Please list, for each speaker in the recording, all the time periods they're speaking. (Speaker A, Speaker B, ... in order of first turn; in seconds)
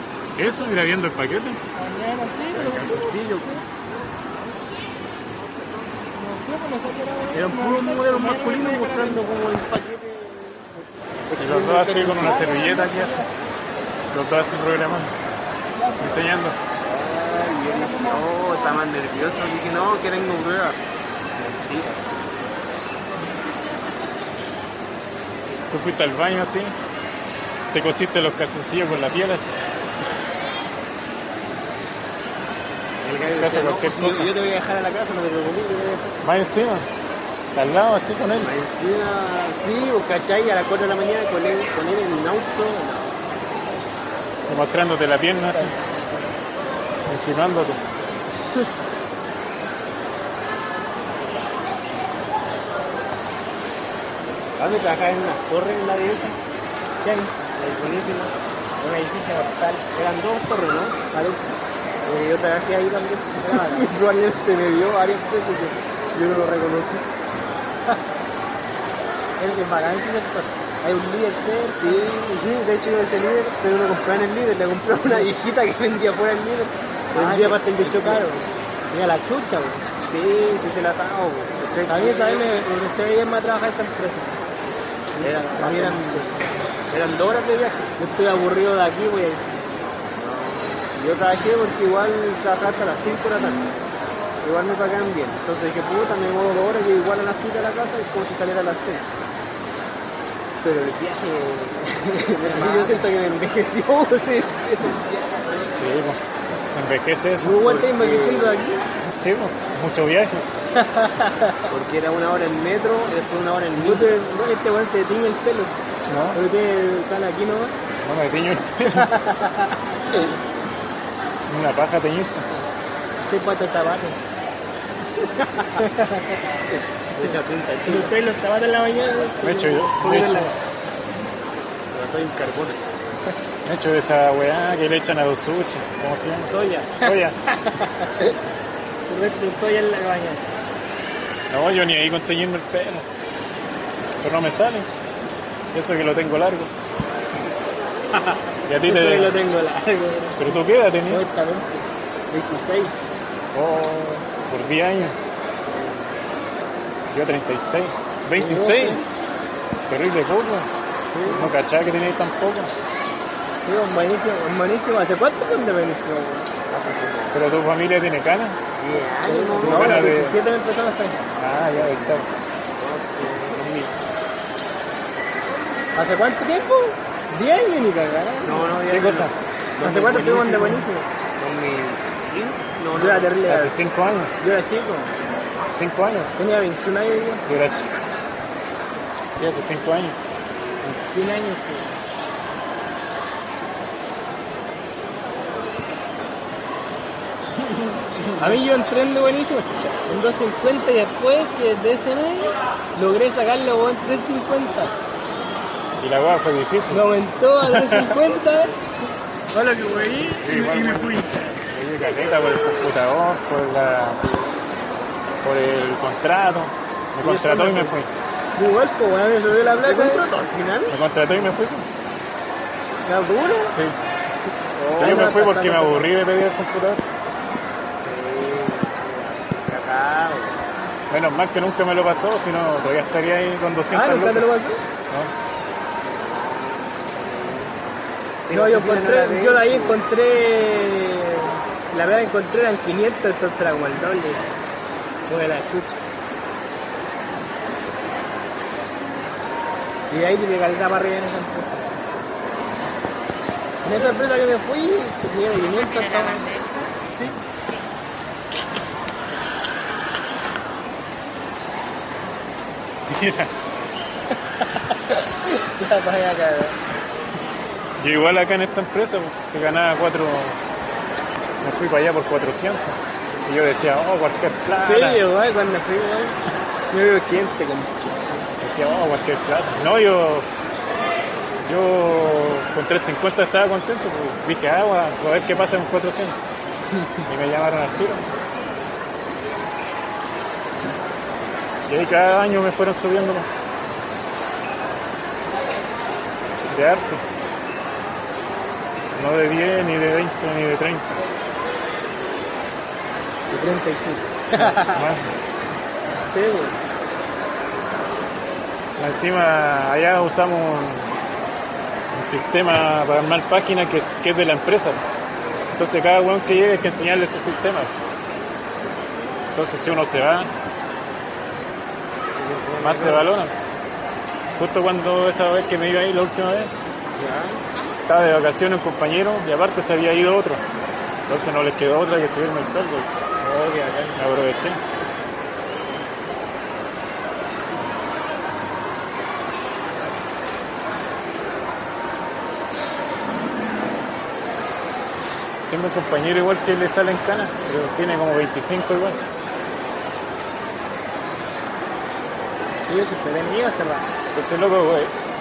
Speaker A: 0.3-1.6, 2.5-3.1, 11.4-13.2, 14.1-15.1, 16.0-16.6, 25.7-26.7, 27.7-29.5, 33.4-34.3, 36.2-36.9, 37.5-38.5, 44.5-45.7, 47.1-47.8, 105.7-106.2, 106.7-107.6, 109.0-110.5, 116.1-116.4, 118.0-119.1, 121.5-122.5, 129.4-130.5, 131.9-132.8, 133.6-137.6, 141.5-143.1, 144.2-144.9, 145.7-146.7, 148.7-149.4, 150.4-151.2, 153.5-155.2, 157.1-159.0, 159.9-160.7, 161.2-162.7, 167.3-168.6, 169.6-170.4, 171.4-172.3, 178.8-179.3, 183.4-184.3, 185.7-186.3, 187.4-187.9, 189.3-190.2, 206.0-207.1, 207.6-208.2, 210.2-214.2, 215.4-218.1, 220.9-221.9, 223.7-224.0, 225.0-227.0, 231.1-234.4, 263.1-263.5, 268.0-270.6, 271.6-275.2, 278.6-280.5, 281.6-286.4, 287.3-288.3, 291.9-293.5, 296.7-297.2, 299.1-301.1, 304.5-305.3, 309.0-311.1, 312.1-315.0, 315.7-317.9, 319.5-320.5, 322.8-323.5, 324.6-326.7, 328.1-330.6, 331.3-333.1, 334.1-334.8, 345.6-349.2, 354.3-355.1
Speaker B: 1.8-3.6, 6.1-9.2, 12.2-13.3, 15.7-16.3, 17.5-18.8, 57.0-57.4, 58.8-59.8, 61.1-61.5, 63.4-63.9, 69.4-72.0, 77.1-79.8, 81.9-84.4, 85.1-86.5, 88.0-89.5, 102.4-103.0, 107.4-108.8, 110.8-111.7, 113.8-115.8, 116.3-117.7, 119.0-119.7, 123.2-124.2, 125.8-126.4, 127.8-130.5, 136.4-138.3, 139.0-140.4, 148.1-152.9, 158.3-159.1, 163.6-166.5, 169.2-171.2, 175.9-178.7, 179.8-181.1, 182.9-183.7, 184.4-185.1, 186.3-187.4, 190.8-191.9, 198.4-204.9, 206.9-208.8, 209.5-211.4, 217.2-218.0, 218.5-220.2, 223.0-223.8, 224.9-226.1, 233.9-234.8, 238.5-244.4, 245.3-246.0, 250.1-251.9, 253.8-257.4, 264.6-266.8, 274.8-276.3, 276.9-278.4, 303.5-305.0, 306.3-306.8, 352.8-354.1
Speaker C: 2.5-3.6, 5.4-5.9, 7.3-12.4, 16.8-20.8, 21.4-22.1, 33.0-36.1, 38.4-43.2, 54.6-56.4, 57.5-58.3, 59.9-61.0, 62.0-67.0, 71.8-78.2, 80.0-82.5, 85.2-86.3, 86.9-87.9, 90.1-93.8, 94.4-99.0, 100.6-105.8, 107.4-108.6, 111.7-114.1, 125.2-125.8, 127.1-128.1, 161.1-161.5, 166.7-167.4, 168.8-170.1, 171.7-172.2, 172.8-173.9, 178.4-180.8, 181.4-183.3, 198.2-198.6, 219.8-221.0, 224.7-225.3, 228.0-230.6, 236.1-237.7, 238.4-240.0, 322.4-323.3, 327.1-327.6, 333.4-334.2